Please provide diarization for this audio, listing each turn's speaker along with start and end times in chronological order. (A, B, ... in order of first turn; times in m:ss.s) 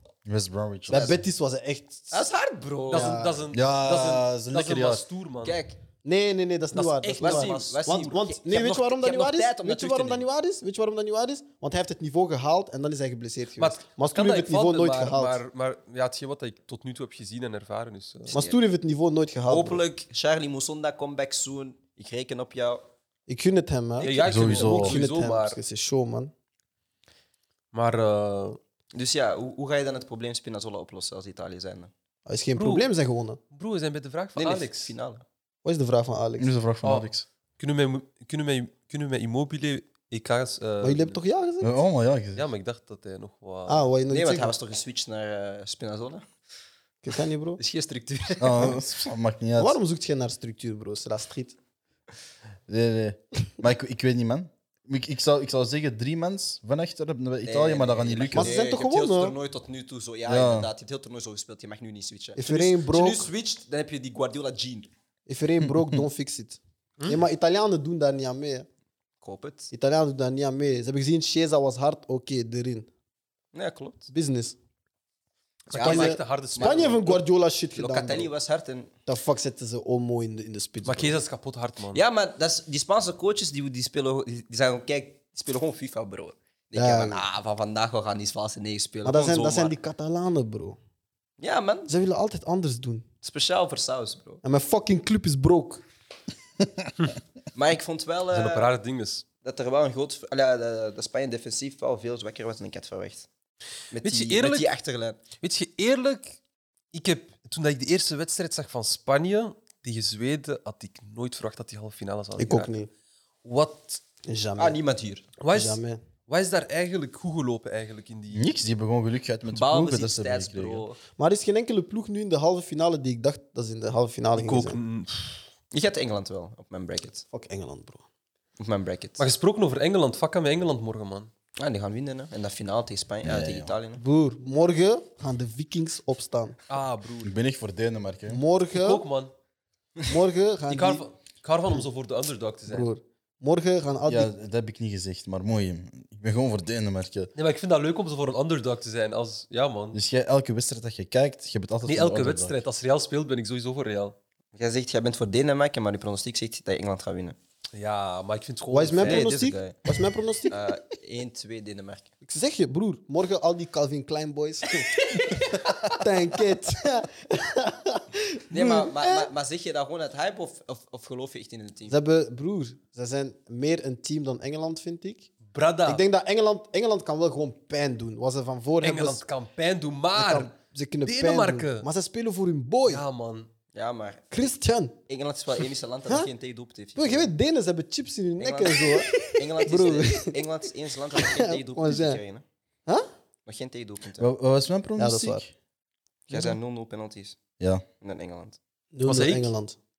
0:00.2-0:01.2 A
0:00.9-0:02.3 B
0:02.1-0:03.2 C
0:02.9-0:05.6 D
0:02.9-0:03.4 B
0:03.5-0:05.0 A
0:05.4-0:05.8 C
0:06.0-0:15.4 B
0:06.7-0:07.8 D
0:07.1-0:10.2 C
0:13.6-0:18.4 D
0:18.3-0:18.6 C
0:18.3-0:19.8 B
0:19.5-0:22.8 C
0:23.3-0:26.3 B
0:24.0-0:25.6 D
0:24.2-0:25.0 A
0:27.7-0:28.6 D
0:28.9-0:31.9 C
0:32.2-0:33.4 B
0:32.6-0:32.9 D
0:33.5-0:34.9 D
0:34.4-0:35.2 C
0:35.6-0:36.5 B
0:36.4-0:37.2 A
0:36.8-0:37.1 D
0:37.6-0:41.2 D
0:40.8-0:41.7 B
0:41.6-0:42.4 A
0:42.3-0:43.8 D
0:43.7-0:44.5 B
0:44.1-0:46.2 C
0:47.0-0:47.6 B
0:47.6-0:48.8 C
0:48.4-0:49.8 A
0:49.6-0:51.6 B
0:52.7-0:58.5 A
0:57.4-1:04.9 C
0:58.3-0:59.4 B
1:00.3-1:00.7 A
1:02.4-1:03.3 B
1:05.3-1:08.7 B
1:05.6-1:06.0 A
1:09.2-1:09.7 C
1:09.7-1:12.9 B
1:13.5-1:14.1 C
1:14.1-1:14.6 B
1:15.7-1:17.2 C
1:15.7-1:17.2 D
1:15.7-1:18.3 B
1:17.7-1:18.9 C
1:19.0-1:21.2 B
1:20.8-1:22.0 D
1:21.9-1:29.7 C
1:26.7-1:27.2 B
1:29.0-1:30.8 B
1:31.4-1:31.9 C
1:31.9-1:33.0 B
1:33.2-1:34.4 C
1:34.4-1:35.8 B
1:37.5-1:38.7 C
1:38.3-1:39.2 D
1:39.4-1:43.3 C
1:43.9-1:45.2 C
1:44.0-1:44.7 D
1:45.4-1:46.4 D
1:46.9-1:52.7 D
1:52.4-1:52.9 B
1:53.4-1:54.0 D
1:54.2-1:54.8 B
1:54.6-1:55.2 C
1:55.4-1:58.4 D
1:55.5-1:56.0 B
1:58.3-2:00.8 A
1:59.5-2:01.0 C
2:01.2-2:04.8 B
2:04.3-2:05.4 D
2:05.7-2:07.2 C
2:07.3-2:08.0 B
2:08.6-2:09.2 C
2:09.2-2:11.3 D
2:11.6-2:14.0 C
2:13.2-2:13.7 A
2:14.0-2:16.6 B
2:16.7-2:17.3 D
2:17.2-2:18.4 A
2:18.3-2:19.0 B
2:18.7-2:19.3 D
2:20.0-2:21.0 B
2:20.7-2:22.9 D
2:22.7-2:24.3 B
2:24.0-2:27.3 A
2:27.4-2:30.0 D
2:29.9-2:32.6 A
2:31.8-2:34.1 D
2:34.5-2:37.4 C
2:37.7-2:39.3 D
2:38.7-2:40.6 B
2:39.0-2:39.8 C
2:40.5-2:42.1 C
2:42.2-2:49.3 B
2:48.5-2:51.9 C
2:51.9-2:55.3 B
2:55.5-2:56.0 D
2:55.8-2:59.2 B
2:58.8-3:00.5 D
3:00.1-3:03.0 B
3:01.0-3:01.9 D
3:02.8-3:03.5 D
3:03.7-3:04.3 C
3:04.3-3:05.0 B
3:05.1-3:07.3 C
3:07.0-3:10.5 B
3:08.4-3:12.4 C
3:11.1-3:12.2 B
3:13.4-3:14.3 C
3:14.2-3:15.5 A
3:15.0-3:15.4 B
3:16.3-3:17.4 C
3:17.6-3:17.8 A
3:18.0-3:18.6 C
3:18.9-3:19.8 B
3:19.0-3:19.5 D